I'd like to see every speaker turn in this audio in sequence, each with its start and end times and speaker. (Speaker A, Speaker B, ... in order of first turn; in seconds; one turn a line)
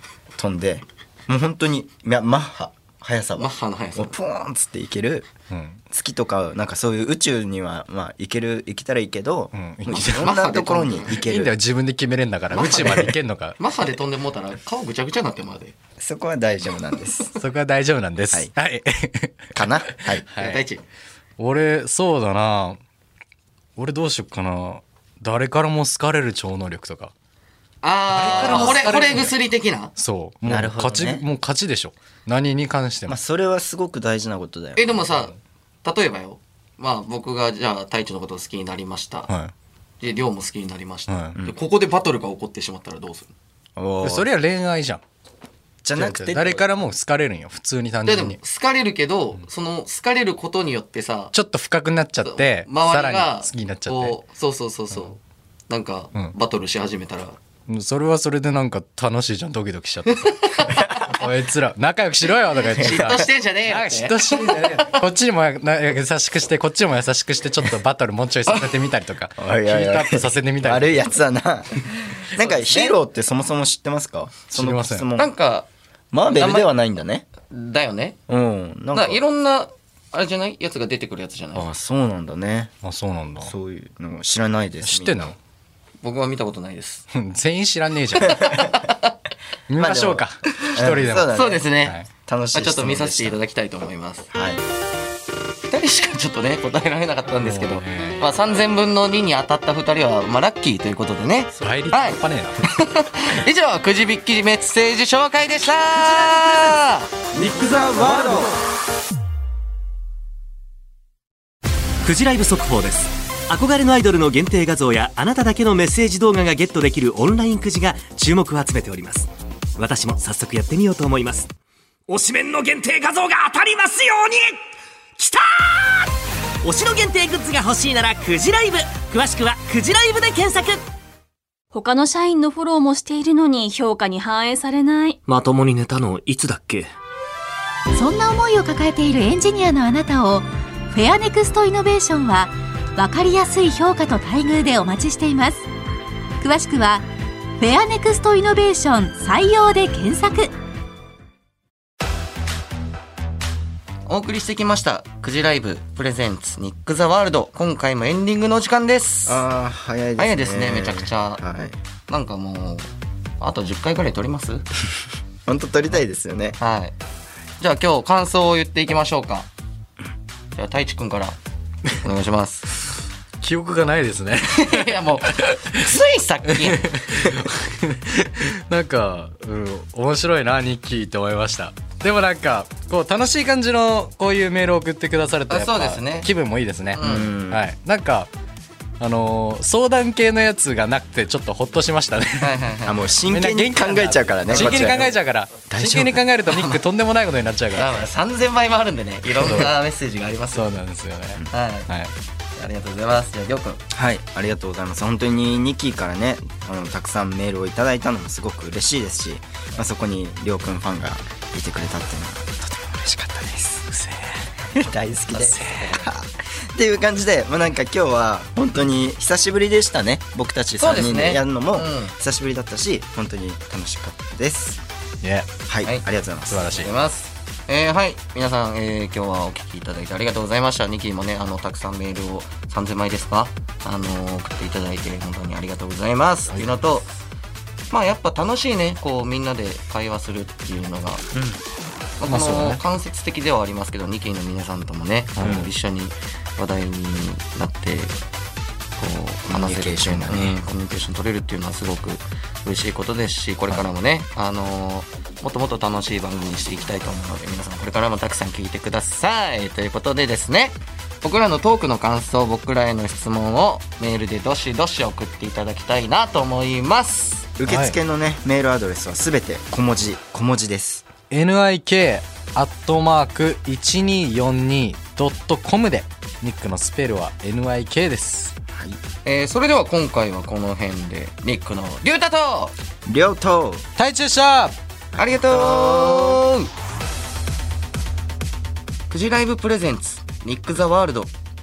Speaker A: 0.4-5.3
Speaker B: 3.4-4.2
Speaker C: 5.5-5.8
Speaker A: 5.9-11.6
Speaker C: 9.5-10.3
Speaker B: 10.2-11.2
Speaker C: 11.1-13.6
Speaker B: 12.5-15.8
Speaker A: 16.0-17.3
Speaker C: 17.4-20.6
Speaker A: 19.6-20.2
Speaker B: 20.3-20.8
Speaker C: 21.4-22.8
Speaker C: 23.8-27.1
Speaker B: 27.8-29.9
Speaker C: 28.1-29.4
Speaker A: 28.2-28.8
Speaker C: 30.0-33.2
Speaker A: 30.4-31.2
Speaker A: 33.1-34.9
Speaker B: 34.8-39.3
Speaker C: 39.3-39.5
Speaker B: 40.0-43.3
Speaker C: 41.1-41.4
Speaker A: 43.8-44.3
Speaker C: 44.0-45.0
Speaker A: 45.8-46.7
Speaker C: 45.9-48.4
Speaker B: 48.0-51.3
Speaker C: 51.3-54.2
Speaker B: 52.2-55.2
Speaker B: 55.7-57.4
Speaker C: 57.7-71.1
Speaker B: 60.6-61.1
Speaker B: 62.8-65.0
Speaker A: 69.4-75.3
Speaker B: 72.2-73.0
Speaker C: 74.5-75.1
Speaker B: 75.2-75.7
Speaker A: 76.1-77.3
Speaker B: 76.2-76.7
Speaker B: 77.5-78.2
Speaker A: 78.3-79.2
Speaker B: 78.9-81.7
Speaker A: 81.5-82.7
Speaker C: 82.8-83.5
Speaker A: 83.4-85.3
Speaker C: 84.8-85.4
Speaker B: 86.0-87.0
Speaker C: 87.1-88.6
Speaker B: 88.4-89.0
Speaker C: 89.7-92.1
Speaker A: 89.8-91.7
Speaker B: 91.3-92.0
Speaker A: 92.2-93.4
Speaker B: 92.5-94.3
Speaker A: 94.3-94.6
Speaker B: 95.7-107.1
Speaker C: 97.4-98.2
Speaker C: 101.6-102.6
Speaker D: 107.4-108.5
Speaker D: 112.0-121.5
Speaker D: 122.1-124.6
Speaker D: 125.2-126.1
Speaker D: 126.6-130.8
Speaker E: 131.7-135.2
Speaker D: 135.2-136.9
Speaker F: 137.9-145.7
Speaker F: 146.4-147.1
Speaker F: 147.6-150.5
Speaker B: 154.1-159.4
Speaker A: 159.2-161.8
Speaker B: 160.2-161.4
Speaker B: 162.1-162.9
Speaker B: 163.4-164.7
Speaker A: 165.5-166.6
Speaker B: 166.6-166.9
Speaker B: 167.6-169.5
Speaker B: 170.5-171.4
Speaker B: 171.9-172.7
Speaker C: 173.4-174.9
Speaker B: 174.4-176.9
Speaker C: 175.4-175.8
Speaker C: 176.6-188.3
Speaker B: 185.5-186.3
Speaker B: 186.9-187.3
Speaker A: 187.0-187.7
Speaker C: 189.0-192.5
Speaker B: 192.4-193.1
Speaker A: 192.9-195.1
Speaker C: 193.2-198.1
Speaker B: 194.5-195.1
Speaker A: 195.7-196.2
Speaker B: 196.5-196.8
Speaker B: 197.8-200.7
Speaker C: 199.4-199.7
Speaker C: 200.5-202.1
Speaker B: 201.5-201.9
Speaker B: 202.6-203.8
Speaker A: 203.9-213.9
Speaker C: 213.9-214.5
Speaker A: 214.7-224.8
Speaker B: 215.3-216.1
Speaker B: 220.8-222.2
Speaker C: 225.2-225.5
Speaker A: 225.7-226.9
Speaker C: 226.5-226.9
Speaker B: 226.7-237.1
Speaker B: 237.9-241.2
Speaker A: 241.3-241.6
Speaker B: 242.2-248.1
Speaker C: 242.3-242.8
Speaker C: 245.4-245.7
Speaker A: 245.4-245.7
Speaker B: 249.0-267.5
Speaker A: 249.5-250.6
Speaker A: 267.6-271.1
Speaker C: 267.7-268.0
Speaker C: 271.3-278.6
Speaker A: 278.7-279.0
Speaker B: 279.2-282.7
Speaker A: 283.1-283.8
Speaker C: 284.0-284.8
Speaker A: 285.1-286.4
Speaker B: 285.2-286.7
Speaker B: 289.1-291.3